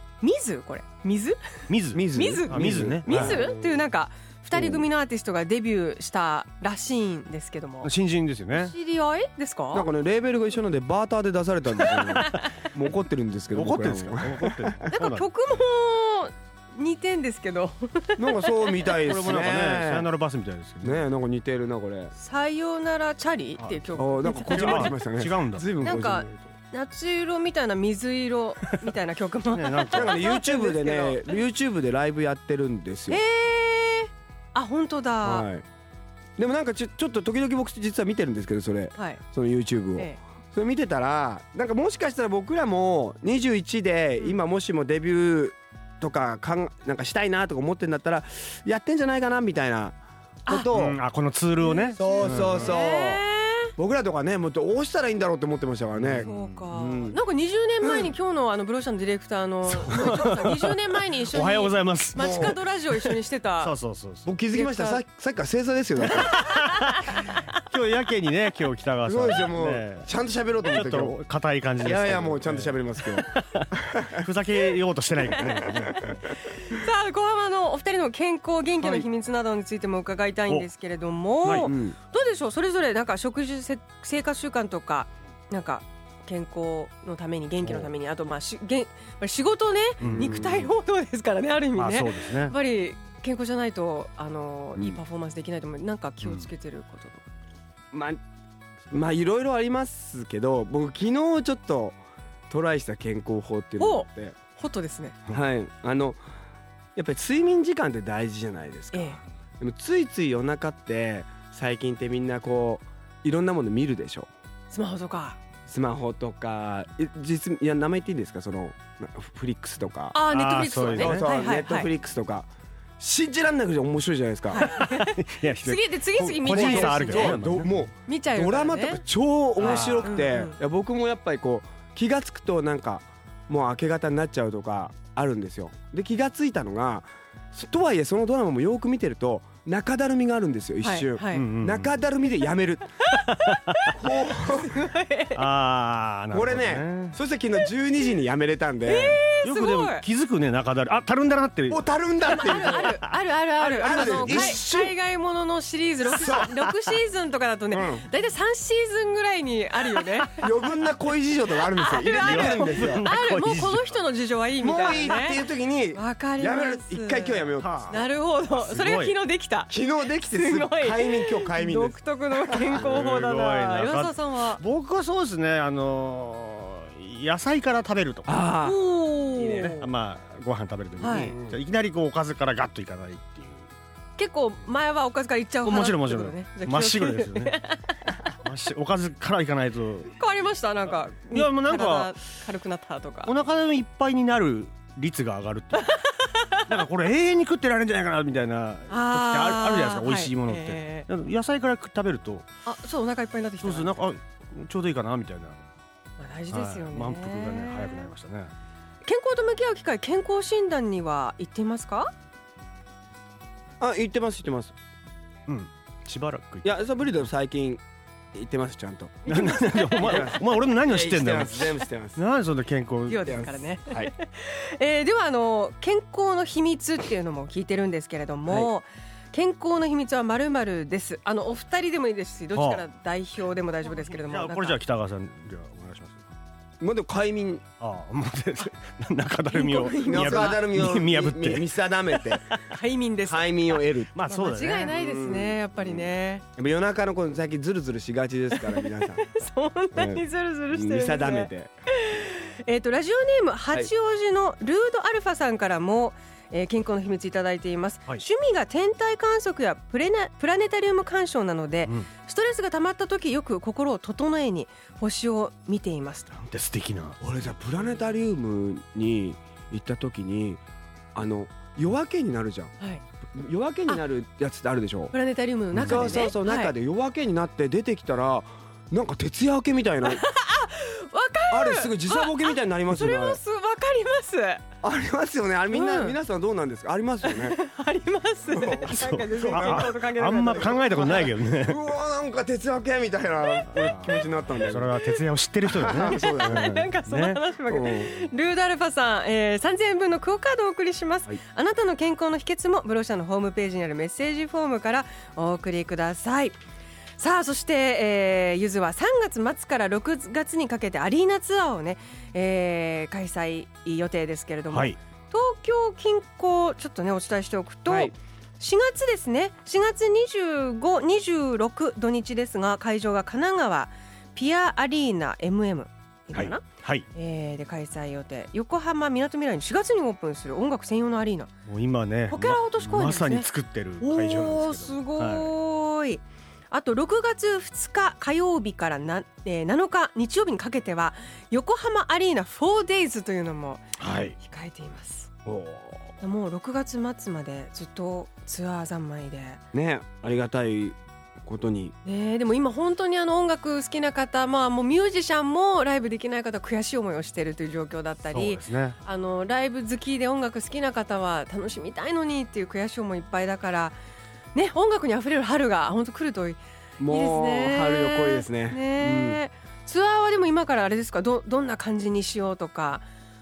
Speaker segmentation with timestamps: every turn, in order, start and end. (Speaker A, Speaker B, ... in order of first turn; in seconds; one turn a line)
Speaker A: 0.2-1.4
Speaker B: 1.7-3.4
Speaker C: 1.9-3.8
Speaker A: 2.1-7.9
Speaker C: 4.5-4.9
Speaker B: 7.8-8.7
Speaker A: 8.5-9.9
Speaker C: 9.7-14.8
Speaker A: 11.8-12.5
Speaker B: 13.5-15.2
Speaker A: 14.9-19.0
Speaker C: 18.2-20.1
Speaker B: 19.0-21.0
Speaker C: 20.8-22.1
Speaker A: 22.2-24.9
Speaker B: 23.6-25.7
Speaker C: 24.0-26.4
Speaker A: 25.8-31.4
Speaker B: 29.5-30.3
Speaker C: 29.9-33.2
Speaker A: 33.1-35.5
Speaker C: 35.2-35.6
Speaker C: 36.4-51.0
Speaker A: 39.0-39.2
Speaker B: 50.7-52.7
Speaker A: 51.6-53.7
Speaker C: 52.0-53.2
Speaker C: 53.8-57.2
Speaker B: 56.0-56.7
Speaker A: 56.2-63.7
Speaker C: 57.8-58.1
Speaker B: 59.9-64.3
Speaker C: 62.1-62.6
Speaker C: 64.2-66.4
Speaker A: 64.5-65.0
Speaker A: 66.1-67.6
Speaker B: 66.3-70.1
Speaker C: 69.0-71.2
Speaker B: 70.6-76.1
Speaker C: 71.8-74.3
Speaker A: 75.3-97.2
Speaker C: 75.4-76.2
Speaker C: 78.8-79.1
Speaker B: 81.4-81.7
Speaker C: 81.4-82.0
Speaker B: 90.0-90.6
Speaker C: 90.0-90.7
Speaker B: 91.8-92.5
Speaker B: 96.2-96.5
Speaker C: 97.9-98.2
Speaker C: 98.9-102.0
Speaker C: 102.5-104.3
Speaker A: 103.8-105.2
Speaker C: 105.3-106.2
Speaker C: 107.0-114.3
Speaker A: 108.9-109.2
Speaker A: 114.7-115.4
Speaker C: 115.7-120.2
Speaker A: 120.1-121.9
Speaker B: 120.3-121.4
Speaker C: 120.8-122.5
Speaker C: 123.0-124.7
Speaker A: 124.5-127.4
Speaker B: 124.6-127.8
Speaker C: 126.1-143.0
Speaker A: 128.1-129.0
Speaker B: 129.6-130.2
Speaker A: 129.6-130.6
Speaker A: 140.8-141.5
Speaker B: 141.3-141.9
Speaker A: 143.0-145.4
Speaker C: 143.9-144.8
Speaker B: 145.3-147.2
Speaker C: 146.3-149.2
Speaker A: 148.8-150.0
Speaker B: 149.4-154.6
Speaker C: 151.7-153.0
Speaker A: 152.3-160.5
Speaker C: 153.7-154.9
Speaker C: 156.1-156.8
Speaker C: 157.7-158.1
Speaker C: 160.4-163.1
Speaker A: 161.6-174.6
Speaker B: 162.0-163.9
Speaker C: 164.6-168.0
Speaker B: 167.6-169.1
Speaker C: 169.7-173.0
Speaker B: 172.7-178.4
Speaker C: 178.2-179.8
Speaker A: 178.6-179.8
Speaker B: 179.7-183.6
Speaker A: 181.0-181.3
Speaker C: 181.3-181.6
Speaker A: 184.2-188.2
Speaker B: 185.6-187.6
Speaker B: 188.4-190.1
Speaker A: 190.1-193.3
Speaker B: 191.3-192.1
Speaker B: 193.2-196.0
Speaker A: 195.8-196.7
Speaker B: 196.6-202.4
Speaker A: 198.9-201.1
Speaker A: 202.6-204.0
Speaker B: 203.6-205.6
Speaker A: 206.2-208.1
Speaker B: 206.5-208.5
Speaker A: 209.0-212.1
Speaker C: 213.8-214.7
Speaker B: 215.5-216.7
Speaker C: 216.6-217.8
Speaker C: 218.3-222.2
Speaker B: 219.3-223.5
Speaker A: 223.1-234.8
Speaker C: 223.2-224.1
Speaker B: 232.5-232.8
Speaker B: 233.8-236.2
Speaker C: 236.8-237.6
Speaker B: 237.8-241.7
Speaker A: 239.5-240.6
Speaker C: 240.0-242.4
Speaker A: 242.6-246.4
Speaker C: 243.2-244.1
Speaker B: 244.1-244.9
Speaker C: 244.9-249.3
Speaker A: 248.5-266.3
Speaker C: 249.9-251.7
Speaker B: 266.3-267.2
Speaker C: 267.2-270.6
Speaker C: 271.1-272.7
Speaker C: 273.3-275.1
Speaker A: 275.1-276.7
Speaker B: 275.7-276.3
Speaker C: 275.7-280.2
Speaker A: 280.0-284.6
Speaker C: 281.5-283.4
Speaker C: 284.8-287.6
Speaker A: 285.7-286.2
Speaker A: 287.2-291.2
Speaker C: 288.5-294.9
Speaker B: 288.8-291.8
Speaker A: 293.4-294.3
Speaker B: 293.7-297.4
Speaker C: 295.8-296.7
Speaker A: 295.9-306.6
Speaker C: 297.7-298.1
Speaker A: 307.2-331.5
Speaker C: 317.9-318.1
Speaker B: 326.3-327.0
Speaker B: 331.7-335.5
Speaker A: 332.3-333.5
Speaker A: 334.0-345.3
Speaker B: 344.0-344.4
Speaker C: 345.4-346.1
Speaker A: 346.2-349.6
Speaker C: 349.7-351.9
Speaker A: 352.0-363.9
Speaker B: 358.3-359.0
Speaker A: 364.5-373.1
Speaker C: 367.0-369.4